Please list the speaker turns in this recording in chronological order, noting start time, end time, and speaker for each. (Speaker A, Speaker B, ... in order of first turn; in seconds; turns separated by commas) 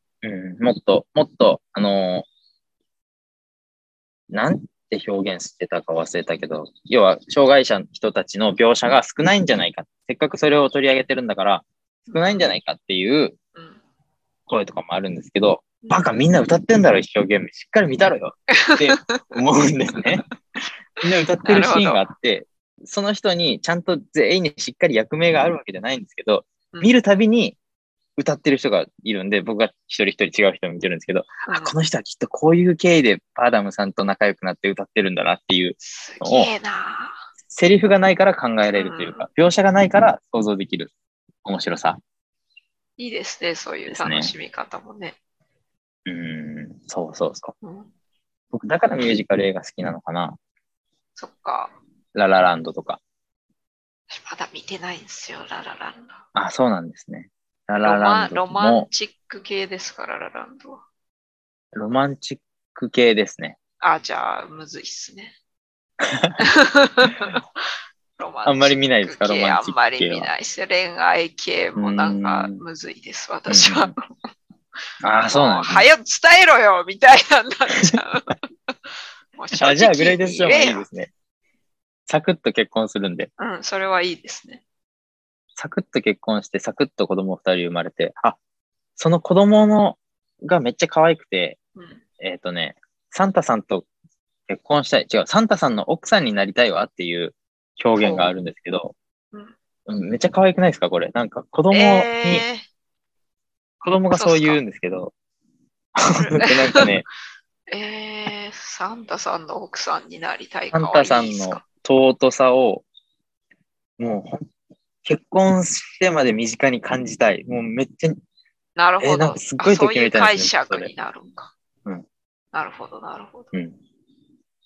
Speaker A: 0.2-2.2, Speaker A: 4.3-13.4, Speaker B: 12.1-12.5, Speaker A: 14.5-20.2, Speaker B: 18.5-19.4, Speaker B: 21.0-22.0, Speaker A: 21.0-27.6, Speaker A: 28.2-36.5, Speaker B: 31.5-31.7, Speaker B: 35.8-37.2, Speaker A: 37.5-40.9, Speaker B: 38.7-39.3, Speaker A: 41.4-42.0, Speaker B: 43.0-45.1, Speaker A: 43.9-44.3, Speaker A: 46.1-47.5, Speaker B: 47.6-47.9, Speaker A: 48.5-50.4, Speaker B: 51.2-51.7, Speaker A: 52.1-53.0, Speaker B: 54.1-56.2, Speaker A: 56.3-58.9, Speaker B: 57.8-60.8, Speaker A: 61.7-63.6, Speaker B: 63.8-65.3, Speaker A: 66.0-66.4, Speaker B: 66.4-67.4, Speaker B: 68.2-74.0, Speaker A: 68.4-70.3, Speaker A: 71.8-72.6, Speaker A: 73.5-73.9, Speaker A: 75.0-75.9, Speaker B: 75.3-80.9, Speaker A: 79.5-81.1, Speaker A: 82.1-83.3, Speaker B: 83.4-84.6, Speaker A: 85.5-88.4, Speaker A: 89.0-91.6, Speaker B: 91.7-92.0, Speaker A: 92.2-93.9, Speaker A: 94.5-98.9, Speaker B: 98.0-98.3, Speaker A: 99.9-102.4, Speaker B: 101.7-102.6, Speaker A: 103.8-105.1, Speaker B: 104.1-104.6, Speaker A: 106.0-107.0, Speaker B: 106.2-107.0, Speaker B: 107.7-111.6, Speaker A: 110.7-112.8, Speaker A: 114.0-114.5, Speaker A: 115.0-118.2, Speaker B: 118.8-121.5, Speaker A: 119.0-120.9, Speaker B: 122.5-123.5